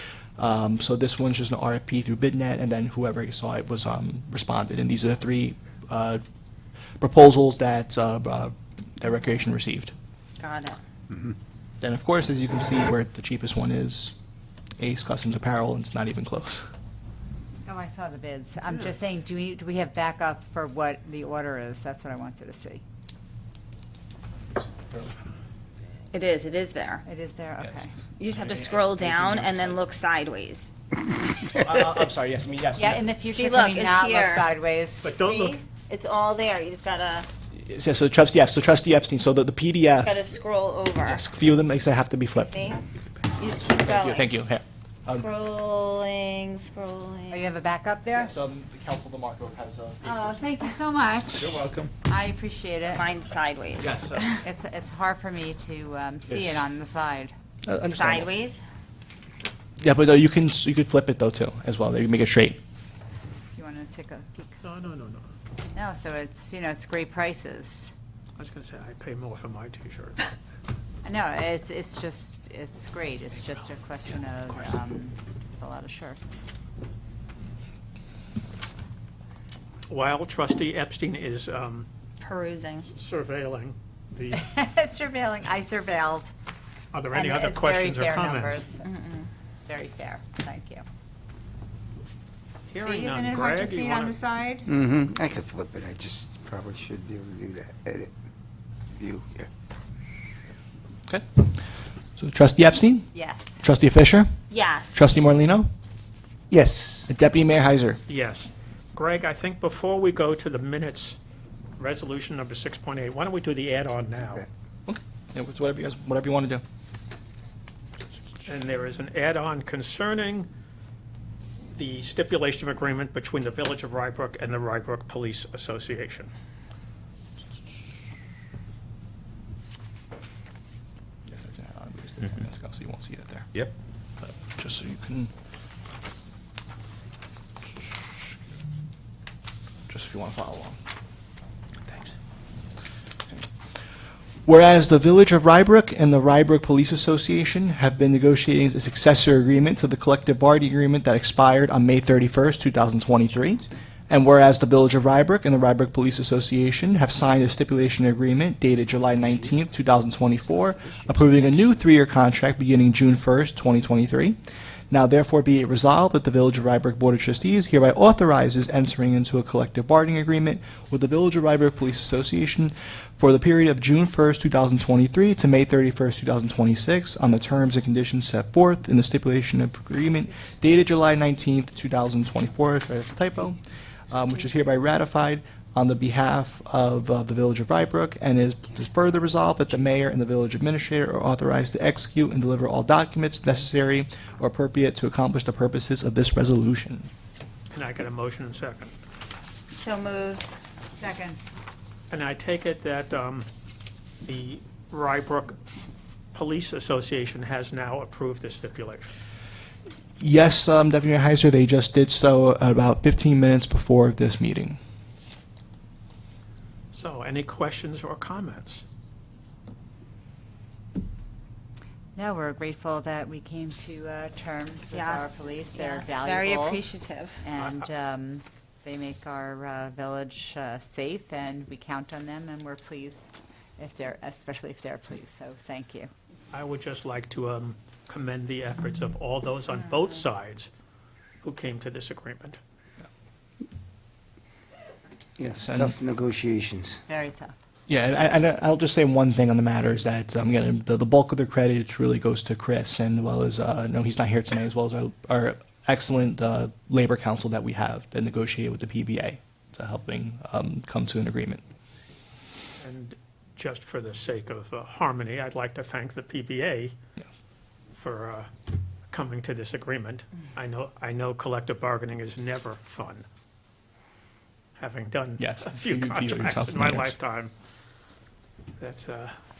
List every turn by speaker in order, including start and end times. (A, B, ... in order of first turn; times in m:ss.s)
0:00.4-0:06.2 A
0:07.0-0:09.9 A
0:10.4-0:10.8 B
0:11.8-0:14.1 A
0:14.8-0:16.7 A
0:17.6-0:22.8 C
0:24.7-0:25.1 A
0:26.1-0:27.0 B
0:27.0-0:27.9 C
0:27.6-0:29.8 A
0:28.2-0:30.9 B
0:31.5-0:33.1 A
0:32.8-0:35.1 C
0:33.3-0:37.3 B
0:35.0-0:35.5 D
0:37.5-0:40.2 A
0:39.9-0:41.2 B
0:41.1-0:42.7 A
0:42.5-0:42.8 B
0:43.4-0:44.3 B
0:43.7-0:45.3 A
0:45.0-0:47.5 B
0:47.3-0:48.3 C
0:48.1-0:50.4 A
0:50.0-0:53.1 C
0:51.5-0:51.9 A
0:52.9-0:54.4 B
0:53.8-0:54.4 A
0:54.4-0:57.3 C
0:56.3-0:56.6 A
0:57.6-0:58.3 A
0:57.9-0:58.6 B
0:59.8-1:02.6 A
1:03.6-1:04.6 C
1:04.6-1:05.3 D
1:05.7-1:07.9 C
1:08.4-1:10.3 D
1:11.0-1:16.4 C
1:19.9-1:21.9 D
1:22.2-1:22.9 B
1:22.9-1:24.4 D
1:24.3-1:26.3 C
1:26.9-1:28.7 D
1:27.1-1:27.7 B
1:27.3-1:28.8 C
1:28.8-1:29.3 B
1:29.7-1:30.8 C
1:32.7-1:34.2 D
1:32.8-1:34.7 C
1:34.6-1:38.1 E
1:38.9-1:39.5 E
1:42.2-1:44.4 A
1:43.1-1:43.6 C
1:44.5-1:45.0 B
1:44.9-1:45.7 A
1:46.5-1:47.1 E
1:47.1-1:48.0 A
1:48.1-1:51.2 D
1:51.8-1:54.4 D
1:54.9-1:56.6 A
1:58.4-2:00.5 D
2:01.7-2:06.3 D
2:11.2-2:13.6 A
2:14.2-2:15.3 A
2:19.9-2:20.8 A
2:24.4-2:44.4 A
2:38.7-2:41.4 E
2:44.9-3:17.1 A
3:17.7-3:18.9 D
3:19.8-3:20.5 B
3:21.0-3:21.4 C
3:22.1-3:23.5 D
3:24.2-3:25.6 D
3:26.3-3:29.1 D
3:30.2-3:34.8 A
3:36.9-3:38.8 D
3:42.2-3:46.9 C
3:44.9-3:47.4 B
3:47.4-3:56.1 C
3:47.6-3:47.8 D
3:56.5-4:00.7 D
4:01.4-4:02.6 D
4:05.4-4:07.0 E
4:05.6-4:05.9 A
4:07.1-4:07.6 C
4:07.9-4:21.6 A
4:22.8-4:27.0 D
4:27.9-4:28.5 D
4:29.1-4:33.2 D
4:34.8-4:37.5 D
4:35.4-4:37.1 A
4:38.8-4:39.3 D